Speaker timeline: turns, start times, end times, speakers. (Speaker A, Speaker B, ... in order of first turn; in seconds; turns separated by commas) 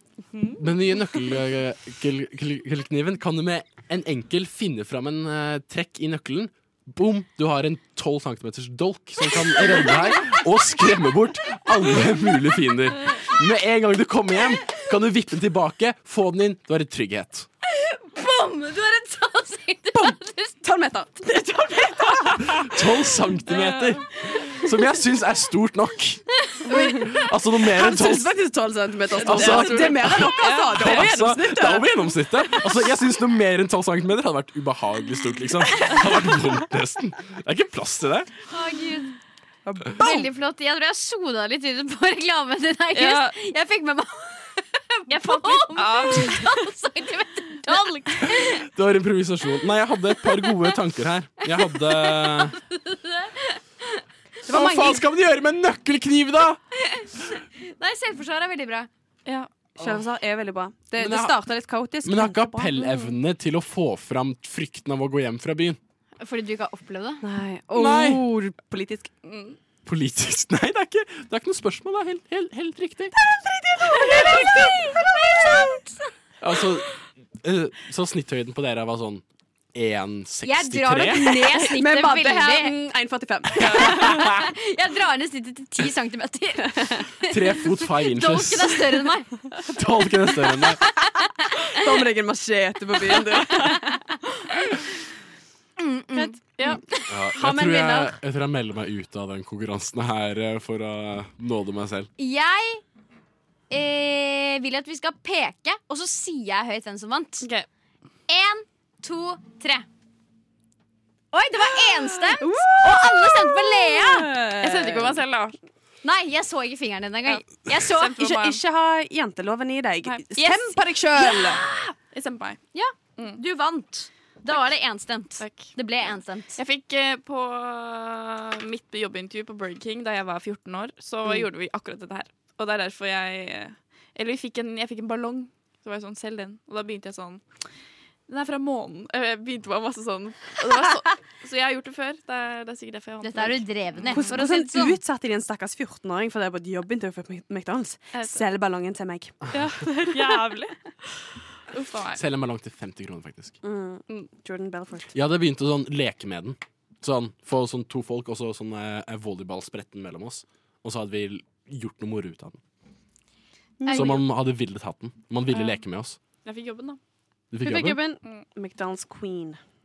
Speaker A: 0.3-0.6, Speaker B: 0.6-17.5, Speaker C: 17.6-20.5, Speaker D: 19.9-22.6, Speaker B: 22.4-28.4, Speaker A: 23.4-24.0, Speaker C: 26.5-27.1, Speaker D: 26.6-32.1, Speaker A: 29.2-31.0, Speaker B: 29.2-38.3, Speaker C: 38.5-39.2, Speaker D: 39.6-40.3, Speaker C: 39.9-48.6, Speaker A: 42.9-43.3, Speaker A: 45.1-46.6, Speaker A: 47.7-48.0, Speaker B: 48.2-52.6, Speaker C: 52.0-54.0, Speaker B: 54.5-56.6, Speaker D: 54.5-55.0, Speaker C: 56.8-58.9, Speaker A: 59.2-60.0, Speaker D: 59.8-62.8, Speaker B: 61.0-61.4, Speaker B: 62.0-65.8, Speaker C: 66.2-67.2, Speaker D: 67.2-69.1, Speaker B: 67.7-68.2, Speaker A: 69.2-69.6, Speaker B: 69.8-73.1, Speaker D: 73.2-75.8, Speaker C: 74.0-76.0, Speaker B: 76.4-81.4, Speaker C: 80.4-82.7, Speaker D: 81.3-84.2, Speaker B: 83.6-84.4, Speaker C: 83.8-89.5, Speaker B: 87.2-89.0, Speaker B: 89.7-90.8, Speaker C: 91.2-91.7, Speaker D: 91.7-93.8, Speaker C: 93.5-94.0, Speaker C: 94.5-94.8, Speaker C: 95.8-97.1, Speaker D: 96.2-98.2, Speaker B: 97.1-102.1, Speaker C: 102.2-102.8, Speaker C: 103.7-107.5, Speaker A: 107.4-107.7, Speaker C: 108.3-109.8, Speaker C: 111.3-114.3, Speaker D: 112.4-115.2, Speaker A: 114.6-115.5, Speaker C: 116.0-118.2, Speaker A: 117.3-118.6, Speaker D: 118.2-121.6, Speaker C: 120.3-121.9, Speaker A: 122.1-122.6, Speaker C: 122.7-126.5, Speaker A: 125.4-125.7, Speaker A: 126.5-137.4, Speaker A: 138.3-144.4, Speaker C: 143.2-145.0, Speaker D: 144.1-150.2, Speaker A: 148.1-148.4, Speaker A: 149.5-151.1, Speaker A: 151.7-152.2, Speaker B: 152.1-153.6, Speaker D: 153.6-155.1, Speaker B: 155.1-162.6, Speaker D: 163.8-164.2, Speaker A: 163.9-164.2, Speaker B: 163.9-166.2, Speaker A: 165.5-165.8, Speaker A: 166.4-167.0, Speaker B: 167.5-168.0, Speaker D: 167.6-169.6